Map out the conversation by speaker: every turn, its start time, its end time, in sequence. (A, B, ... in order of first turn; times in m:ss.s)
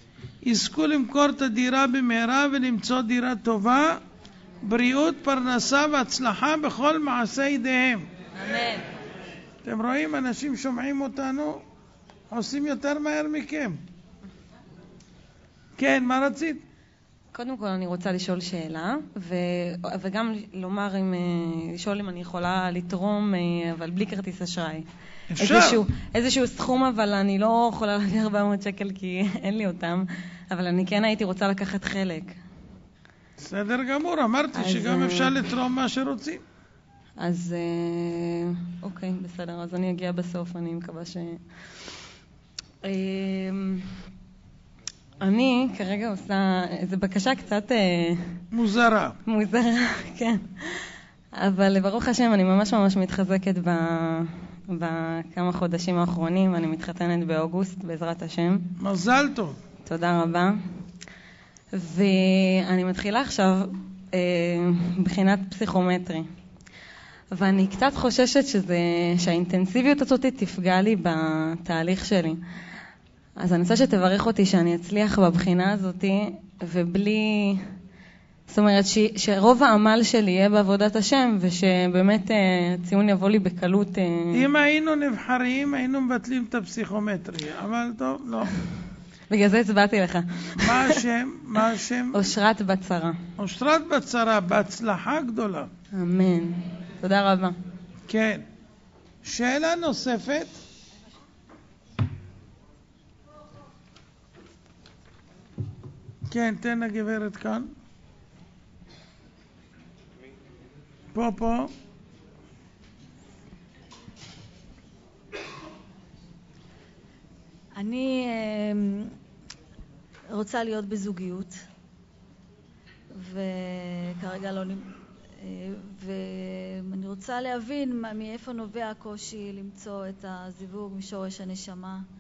0:00.4-0:04.0 A
0:04.6-0:08.1 A
0:08.4-0:08.8 B
0:09.6-0:11.6 A
0:12.3-0:13.8 A
0:15.8-0:16.6 A
0:17.3-0:24.9 C
0:25.3-0:25.8 A
0:25.4-0:32.4 C
0:33.4-0:36.4 A
0:34.5-0:35.4 C
0:37.2-0:41.4 C
0:42.8-0:43.9 C
0:45.2-0:48.3 C
0:48.5-0:49.2 A
0:49.3-0:58.7 C
0:58.8-0:59.6 A
0:59.8-1:00.6 C
1:01.7-1:06.3 C
1:07.3-1:12.4 C
1:13.4-1:17.6 C
1:18.5-1:24.5 C
1:24.3-1:28.6 A
1:29.3-1:31.0 C
1:30.6-1:32.2 A
1:32.1-1:33.2 C
1:33.4-1:35.7 A
1:35.9-1:37.6 C
1:38.1-1:38.4 A
1:39.2-1:40.6 A
1:46.3-1:47.7 A
1:51.1-1:51.7 A
1:57.8-1:59.1 B
2:00.3-2:01.6 B
2:03.1-2:12.1 B